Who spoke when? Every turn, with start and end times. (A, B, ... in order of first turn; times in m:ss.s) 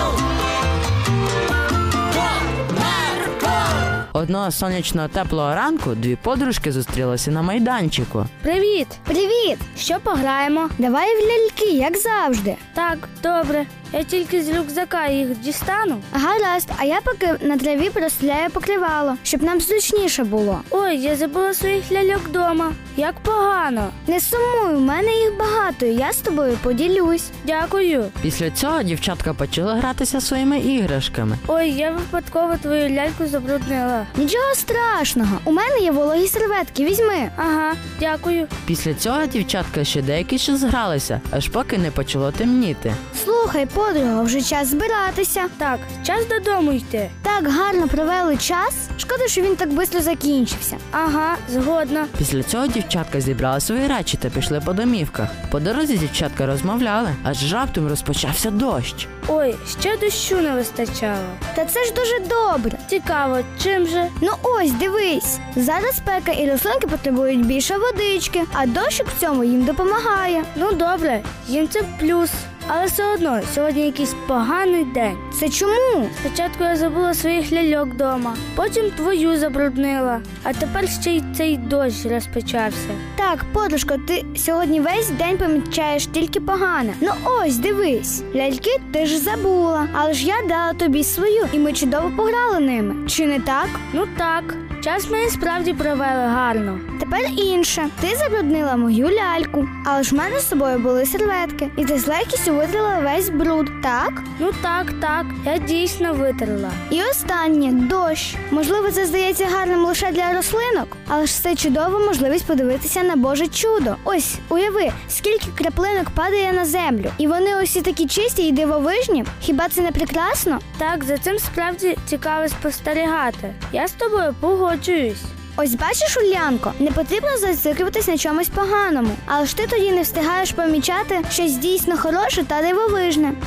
0:04.1-0:08.3 A
0:08.4-0:09.0 B
0:09.1-0:09.6 C
0:09.7-0:10.7 B
0:10.8-0:12.6 C
0:12.7-0:16.0 B
0:16.1-0:20.6 C
0:20.7-0:23.9 B
0:24.0-0:27.3 C
0:27.4-0:28.1 B
0:28.2-0:31.4 A
0:31.5-0:34.1 B
0:34.2-0:37.3 C
0:37.4-0:38.5 B
0:38.6-0:43.0 A
0:43.1-0:45.5 C
0:45.6-0:47.1 B
0:47.2-0:50.8 C
0:50.9-0:52.1 B
0:52.2-0:59.1 A
0:59.2-1:01.4 B
1:01.5-1:02.8 C
1:02.8-1:04.1 B
1:04.2-1:10.5 C
1:10.5-1:15.2 B
1:15.3-1:16.1 C
1:16.2-1:23.0 B
1:23.2-1:33.8 C
1:33.9-1:36.8 B
1:37.0-1:44.2 C
1:44.4-1:46.8 B
1:46.9-2:00.6 C
2:00.8-2:05.3 B
2:05.6-2:13.4 C